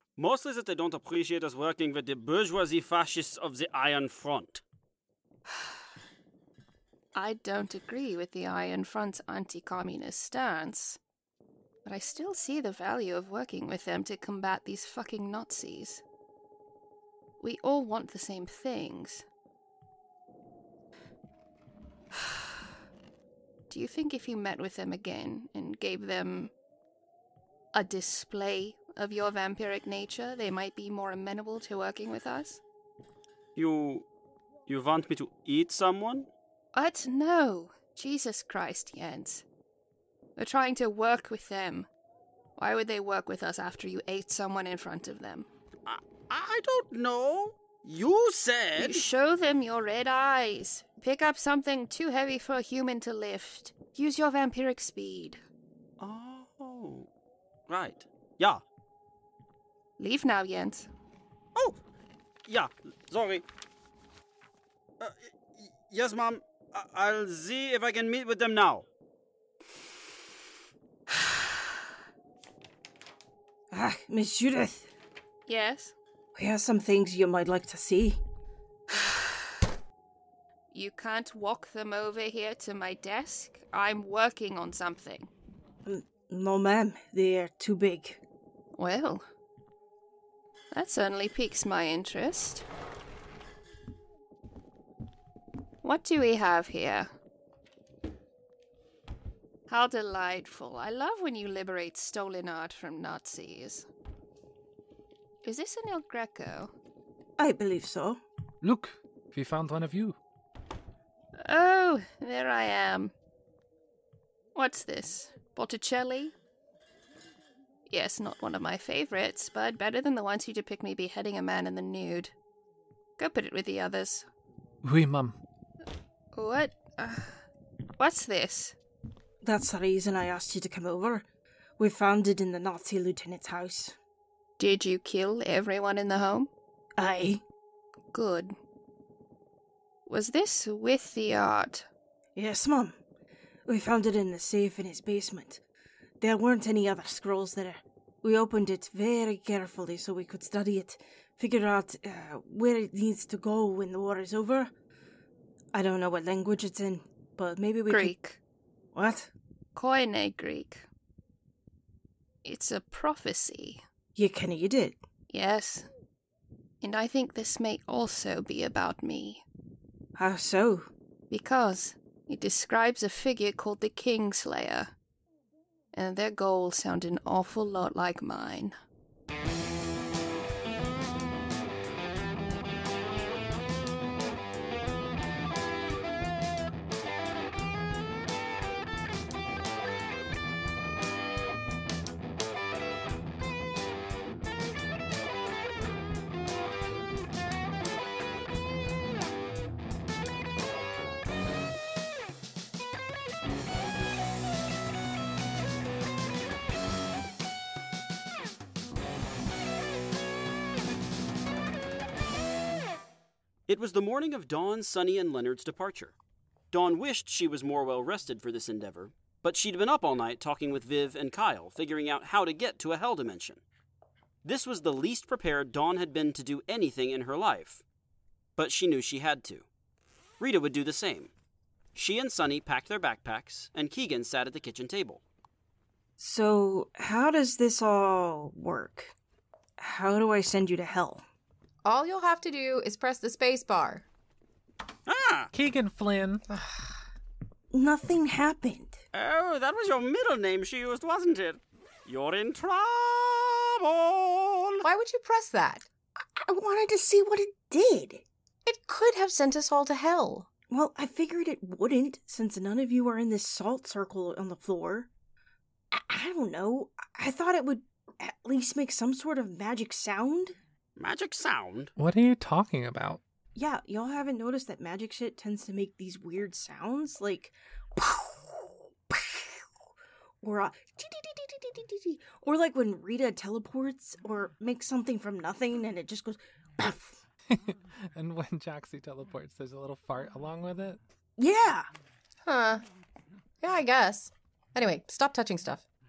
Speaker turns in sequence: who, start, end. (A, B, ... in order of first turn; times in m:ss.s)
0:00.2-0:04.6 A
0:07.1-0:11.0 B
0:11.8-0:16.0 B
0:17.4-0:19.3 B
0:22.2-0:22.4 B
0:23.7-0:26.5 B
0:27.7-0:32.6 B
0:33.6-0:34.0 A
0:34.7-0:36.3 A
0:36.7-0:39.4 B
0:40.4-0:41.9 B
0:42.6-0:45.5 B
0:45.8-0:49.0 A
0:48.8-0:55.4 B
0:56.0-0:57.1 A
0:57.7-0:58.6 A
1:00.0-1:00.9 B
1:02.5-1:03.4 A
1:05.0-1:08.9 A
1:13.7-1:14.9 C
1:15.5-1:15.9 B
1:16.3-1:18.2 C
1:20.7-1:25.3 B
1:25.8-1:28.2 C
1:28.7-1:29.2 B
1:30.7-1:32.6 B
1:35.8-1:37.1 B
1:39.7-1:43.9 B
1:45.4-1:46.7 B
1:47.4-1:48.2 C
1:48.6-1:50.2 D
1:51.4-1:53.1 B
1:54.5-1:56.3 B
1:57.9-2:02.3 B
2:03.2-2:04.3 B
2:04.8-2:05.4 D
2:06.3-2:07.4 B
2:08.0-2:08.8 B
2:09.4-2:11.2 C
2:11.8-2:14.0 C
2:14.6-2:16.5 B
2:17.0-2:17.4 C
2:18.1-2:18.5 B
2:20.0-2:21.9 B
2:22.3-2:23.0 C
2:23.7-2:25.6 C
2:26.2-2:34.7 C
2:35.7-2:38.1 C
2:37.9-2:38.4 B
2:38.9-2:39.3 C
2:39.7-2:40.9 B
2:42.4-2:43.8 B
2:44.2-2:45.0 C
2:45.3-2:45.8 B
2:46.8-2:49.4 B
2:50.2-2:50.9 C
2:51.3-2:54.9 B
2:55.9-2:58.8 B
3:33.7-3:36.1 A
3:36.7-3:43.6 A
3:44.4-3:47.8 A
3:48.6-3:49.6 A
3:50.4-3:51.3 A
3:51.9-3:55.2 A
3:56.2-3:59.1 C
3:59.8-4:01.2 C
4:01.8-4:04.1 E
4:05.1-4:05.5 A
4:05.5-4:06.4 D
4:06.5-4:07.0 E
4:07.7-4:09.0 C
4:09.1-4:14.8 A
4:14.8-4:15.9 E
4:16.4-4:18.2 C
4:18.6-4:20.5 E
4:20.7-4:25.1 C
4:25.9-4:30.6 C
4:31.0-4:31.9 A
4:32.0-4:33.2 D
4:33.5-4:39.6 C
4:40.4-4:47.2 C
4:47.5-4:51.0 D
4:51.4-4:51.9 C
4:52.4-4:52.8 E
4:53.6-4:55.8 E